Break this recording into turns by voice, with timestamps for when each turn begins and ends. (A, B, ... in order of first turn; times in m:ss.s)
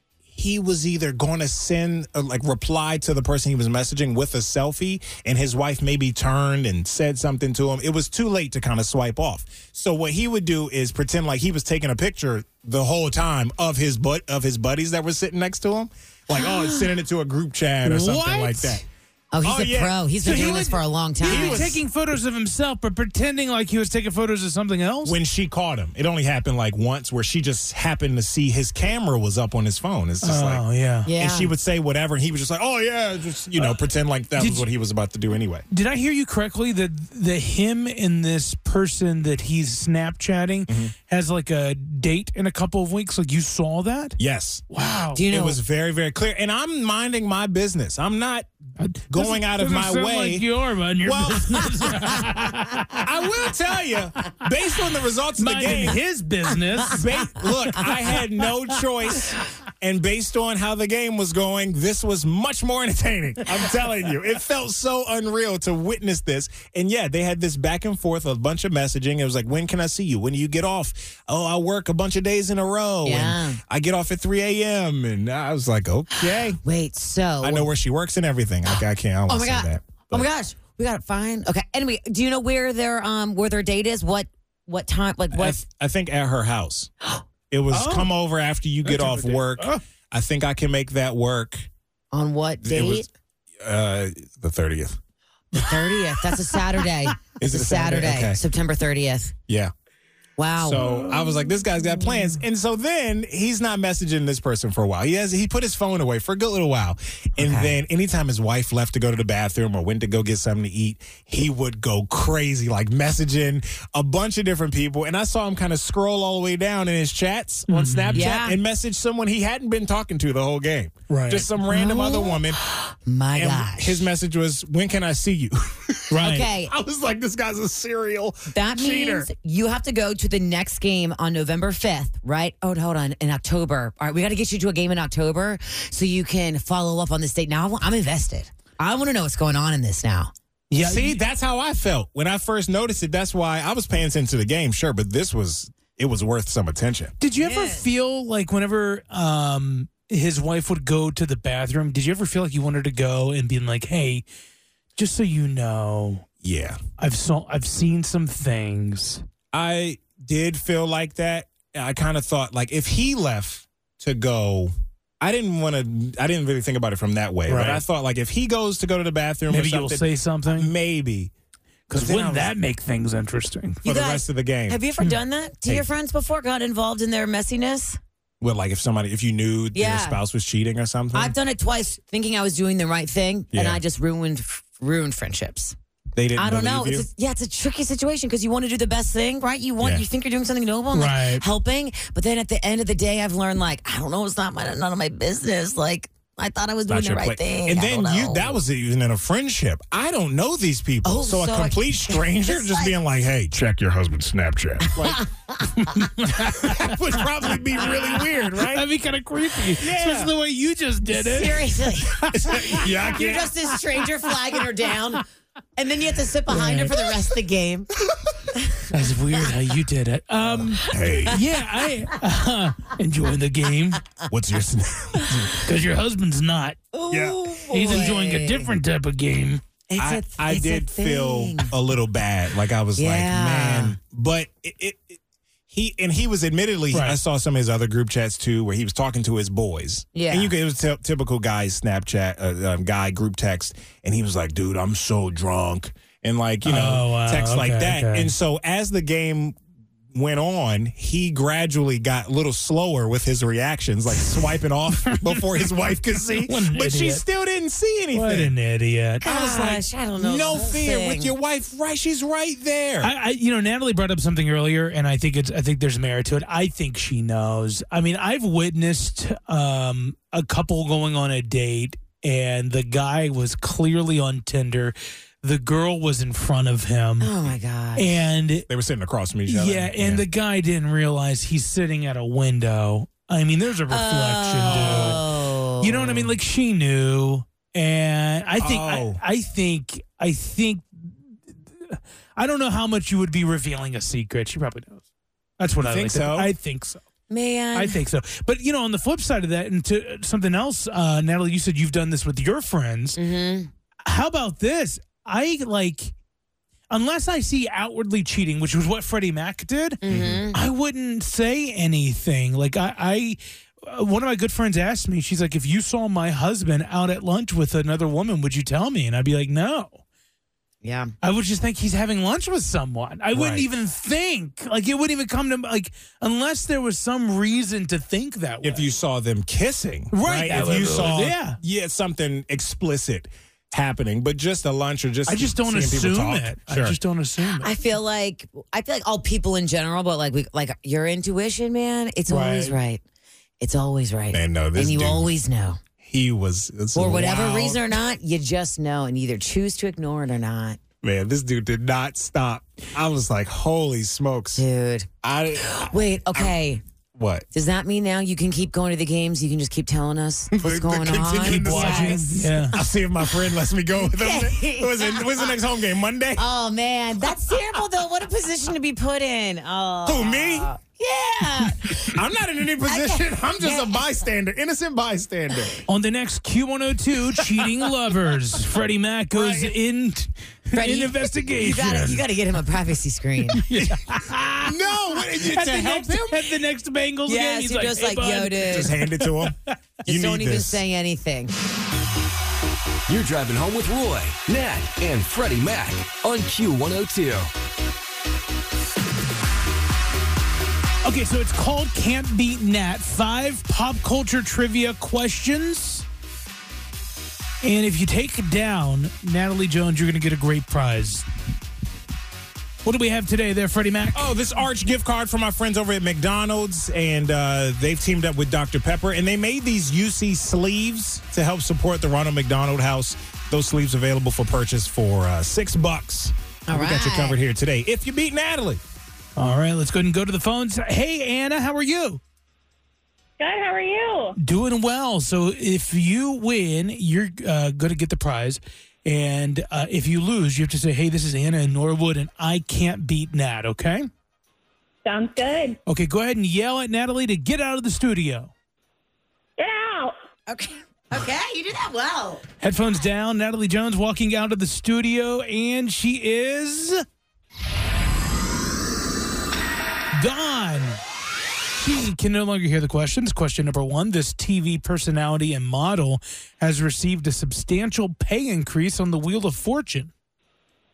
0:00.3-0:18.8 A
0:16.3-0:16.8 B
0:17.8-0:18.8 C
0:19.3-0:21.8 B
0:19.4-0:20.7 A
0:20.2-0:25.2 C
0:21.2-0:21.8 A
0:25.0-0:30.6 A
0:30.2-0:31.1 C
0:31.1-0:31.5 B
0:31.1-0:35.6 A
0:34.4-0:34.7 C
0:35.7-0:44.2 C
0:40.7-0:40.9 A
0:44.2-0:44.6 A
0:44.7-0:45.2 C
0:45.1-0:45.6 B
0:45.3-0:48.5 A
0:48.8-0:53.0 C
0:49.1-0:50.4 A
0:51.0-0:52.2 A
0:53.0-0:56.0 A
0:55.4-0:57.1 C
0:56.9-1:16.6 A
1:13.0-1:13.6 B
1:16.6-1:17.7 B
1:17.4-1:20.3 A
1:19.3-1:25.6 B
1:25.3-1:26.9 A
1:27.5-1:31.7 A
1:27.7-1:28.1 C
1:28.8-1:29.8 C
1:32.1-1:33.1 B
1:32.6-1:33.1 A
1:33.6-1:35.0 A
1:35.6-1:39.3 B
1:37.4-1:38.4 A
1:40.4-1:41.0 B
1:40.6-2:02.6 A
1:47.4-1:47.7 B
1:57.7-1:58.3 C
1:58.1-1:58.6 B
2:01.1-2:01.5 C
2:01.6-2:04.0 B
2:03.4-2:09.3 A
2:06.1-2:06.5 C
2:06.2-2:06.7 B
2:08.5-2:20.3 B
2:20.7-2:21.2 C
2:20.8-2:27.1 A
2:27.2-2:34.2 C
2:27.4-2:27.9 B
2:35.0-2:36.3 C
2:36.4-2:36.8 A
2:37.0-2:39.2 C
2:39.5-2:51.3 A
2:47.5-2:47.8 C
2:49.5-2:50.7 C
2:51.9-2:53.8 C
2:51.9-2:52.5 A
2:53.8-2:54.8 A
2:53.8-2:58.0 B
2:58.4-3:01.4 A
2:59.7-3:00.2 B
3:01.1-3:05.8 B
3:03.5-3:03.8 A
3:06.2-3:07.1 A
3:06.4-3:18.6 B
3:10.9-3:11.4 C
3:16.9-3:25.2 A
3:21.0-3:22.9 B
3:24.9-3:26.0 B
3:25.9-3:26.9 C
3:26.6-3:28.9 A
3:28.6-3:32.9 C
3:29.8-3:30.3 A
3:31.1-3:35.2 B
3:32.3-3:33.5 A
3:35.8-3:37.9 B
3:36.5-3:37.0 C
3:38.6-3:38.9 B
3:38.9-3:44.0 C
3:40.4-3:41.4 A
3:44.3-3:45.6 A
3:45.6-3:46.8 C
3:46.9-3:48.8 B
3:47.1-3:48.0 A
3:47.7-3:49.6 C
3:49.9-3:51.7 B
3:50.0-3:55.2 A
3:53.0-3:54.0 B
3:55.7-4:09.6 A
3:56.9-3:57.2 C
4:00.2-4:00.5 B
4:06.6-4:08.3 C
4:10.1-4:18.5 A
4:15.0-4:15.5 C
4:16.3-4:17.2 C
4:18.1-4:19.2 C
4:19.2-4:23.1 A
4:19.2-4:21.3 B
4:23.0-4:37.3 C
4:37.2-4:38.2 B
4:38.0-4:38.7 C
4:38.7-4:40.2 A
4:39.5-4:45.3 C
4:43.9-4:46.3 B
4:44.6-4:45.2 A
4:45.8-4:51.2 C
4:48.6-4:49.2 A
4:51.8-4:55.0 C
4:55.6-4:57.0 C
4:55.8-4:56.5 A
4:57.3-4:58.0 B
4:57.7-5:03.2 C
5:03.2-5:03.7 B
5:04.1-5:06.1 C
5:06.9-5:10.0 C
5:10.0-5:10.6 B
5:10.0-5:10.5 A
5:10.5-5:20.0 C
5:20.8-5:21.1 B
5:21.2-5:28.9 C
5:23.3-5:23.7 A
5:28.6-5:37.0 A
5:30.1-5:31.6 C
5:35.3-5:37.7 C
5:37.6-5:43.0 B
5:42.3-5:42.8 C
5:43.6-5:45.8 B
5:44.3-5:45.4 A
5:46.0-5:48.0 A
5:47.0-5:50.8 B
5:51.0-5:54.6 A
5:54.6-5:55.1 B
5:55.2-5:56.6 A
5:55.6-5:56.8 B
5:57.2-5:57.5 A
5:57.5-6:02.9 B
6:00.5-6:06.4 A
6:01.3-6:02.8 C
6:04.0-6:05.6 B
6:06.4-6:12.2 B
6:10.0-6:10.7 A
6:12.0-6:15.8 A
6:12.8-6:14.1 B
6:15.9-6:22.2 C
6:19.3-6:19.7 A
6:20.7-6:23.6 B
6:23.6-6:29.7 C
6:24.6-6:26.5 A
6:27.3-6:28.9 B
6:28.6-6:30.8 A
6:30.1-6:31.5 B
6:33.1-6:37.5 D
6:41.0-6:46.0 C
6:47.6-6:51.2 C
6:52.8-6:54.3 C
6:54.1-7:08.8 A
7:06.7-7:07.4 B
7:09.4-7:12.2 C
7:13.4-7:14.4 E
7:14.4-7:24.1 C
7:25.0-7:25.8 E
7:25.9-7:28.5 C
7:29.6-7:30.1 E
7:30.5-7:32.4 B
7:32.6-7:37.0 C
7:40.1-7:41.0 C
7:41.8-7:50.1 C